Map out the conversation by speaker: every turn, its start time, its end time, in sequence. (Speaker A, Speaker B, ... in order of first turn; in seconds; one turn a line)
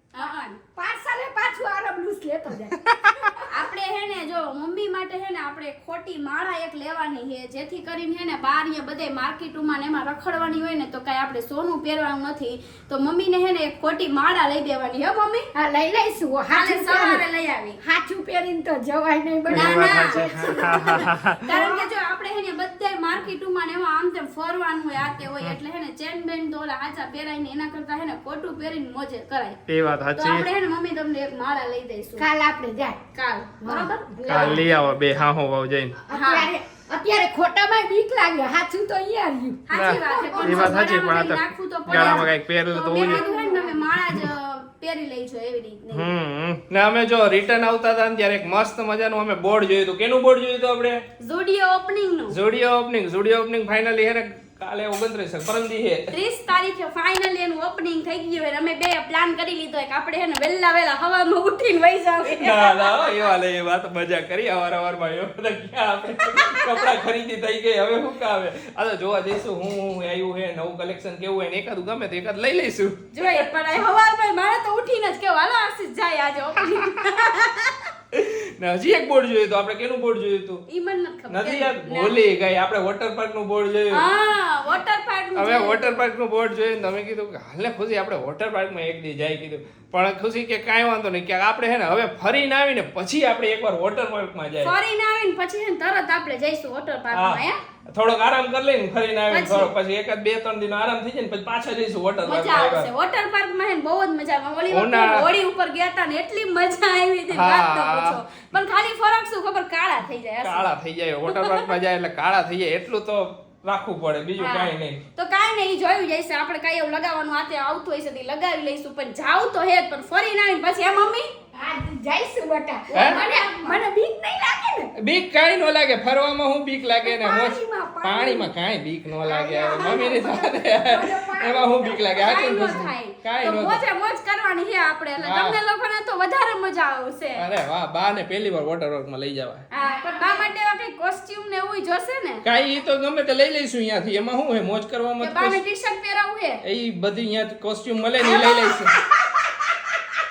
Speaker A: 0.1-0.6
Speaker B: 0.8-3.4
Speaker A: 3.5-15.5
Speaker B: 15.6-17.2
Speaker A: 16.5-17.8
Speaker B: 17.8-21.9
Speaker C: 19.5-21.5
Speaker A: 19.5-29.6
Speaker C: 29.7-30.5
Speaker A: 30.2-32.3
Speaker B: 32.2-33.0
Speaker A: 33.1-34.7
Speaker B: 33.6-34.6
Speaker C: 34.3-36.0
Speaker B: 36.0-40.8
Speaker A: 36.1-36.5
Speaker A: 39.7-46.1
Speaker C: 39.8-43.2
Speaker B: 41.9-42.3
Speaker B: 43.0-43.8
Speaker C: 45.9-51.0
Speaker A: 51.2-52.4
Speaker C: 52.3-56.1
Speaker A: 56.1-63.3
Speaker C: 62.2-73.5
Speaker A: 73.1-77.9
Speaker C: 78.1-80.6
Speaker A: 80.7-82.2
Speaker C: 81.3-84.0
Speaker A: 83.9-85.8
Speaker C: 85.4-94.7
Speaker A: 94.6-97.6
Speaker C: 97.1-102.9
Speaker A: 99.3-99.7
Speaker A: 102.2-110.7
Speaker C: 104.7-105.2
Speaker C: 107.3-108.2
Speaker C: 110.4-115.0
Speaker A: 111.3-111.7
Speaker A: 114.4-121.3
Speaker B: 121.5-124.9
Speaker A: 122.9-123.8
Speaker C: 122.9-123.2
Speaker C: 125.0-133.8
Speaker B: 127.0-128.5
Speaker B: 129.2-132.8
Speaker A: 132.2-137.4
Speaker C: 135.2-135.6
Speaker C: 137.4-139.7
Speaker A: 139.7-142.4
Speaker B: 139.8-140.5
Speaker C: 142.4-145.6
Speaker A: 145.2-146.6
Speaker C: 146.6-148.9
Speaker A: 148.3-148.8